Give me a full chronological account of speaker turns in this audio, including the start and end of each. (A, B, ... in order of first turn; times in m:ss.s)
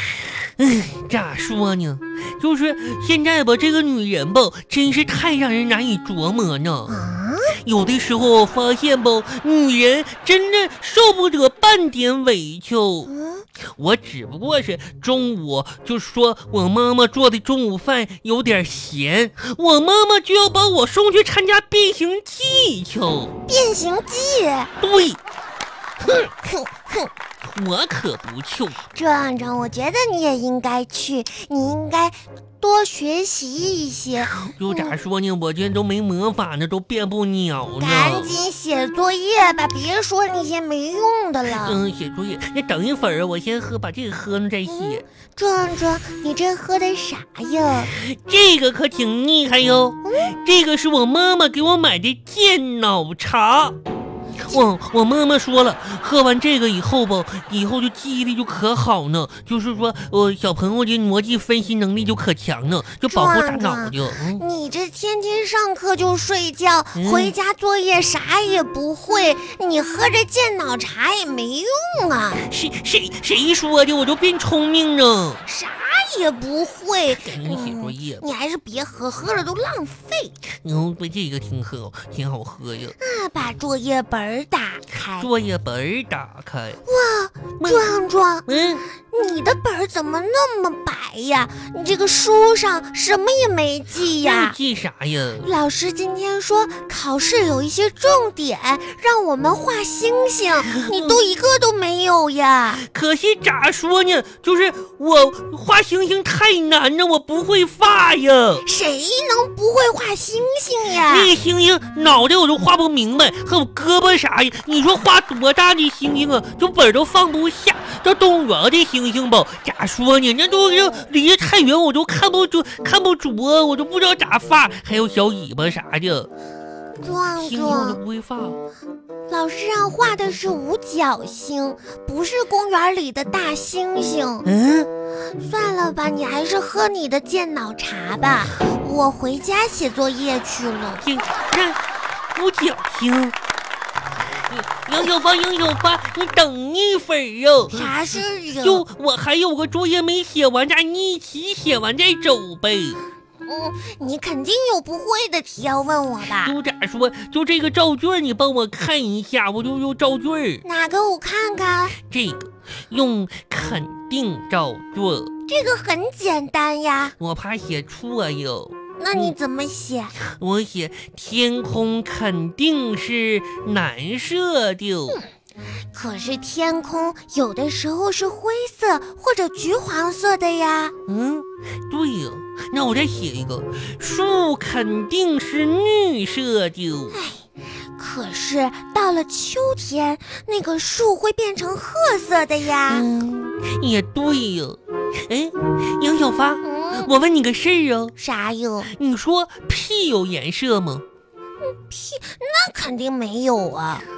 0:00.3-0:07.0 A
0:06.9-0:07.6 B
0:07.6-0:13.1 A
0:13.1-0:13.5 B
0:13.8-0:23.3 A
0:23.5-0:24.7 B
0:24.8-0:25.2 A
0:26.0-0:27.1 B
0:27.4-0:28.8 A
0:28.9-0:34.9 B
0:34.2-0:38.3 A
0:37.8-0:41.8 B
0:41.6-0:45.0 A
0:44.7-0:47.9 B
0:47.9-0:53.8 A
0:50.0-0:50.4 B
0:54.5-1:04.4 A
1:03.1-1:12.4 B
1:07.0-1:07.4 A
1:12.4-1:15.4 A
1:15.4-1:20.4 B
1:17.2-1:18.2 A
1:20.6-1:23.0 A
1:23.0-1:25.3 B
1:25.2-1:26.8 A
1:26.8-1:28.5 B
1:27.6-1:28.8 A
1:29.0-1:34.6 B
1:34.2-1:35.5 A
1:35.4-1:42.8 B
1:40.8-1:41.2 A
1:42.8-1:48.6 A
1:48.6-1:51.3 B
1:51.1-2:06.3 A
2:00.5-2:01.1 B
2:07.0-2:08.0 B
2:07.4-2:08.6 A
2:09.3-2:14.5 B
2:14.4-2:14.9 A
2:15.3-2:21.0 B
2:21.0-2:21.8 A
2:22.3-2:23.4 A
2:24.4-2:28.0 A
2:27.7-2:28.9 B
2:28.6-2:33.0 A
2:33.5-2:36.6 B
2:36.4-2:40.6 A
2:40.6-2:42.0 B
2:42.0-2:45.3 A
2:45.5-2:47.2 B
2:47.2-2:49.4 A
2:49.0-2:50.1 B
2:50.2-2:55.2 A
2:55.9-3:01.0 B
3:01.1-3:07.2 A
3:07.1-3:13.1 B
3:12.9-3:18.2 A
3:16.6-3:17.1 B
3:18.2-3:18.9 B
3:18.9-3:21.0 A
3:21.8-3:24.1 B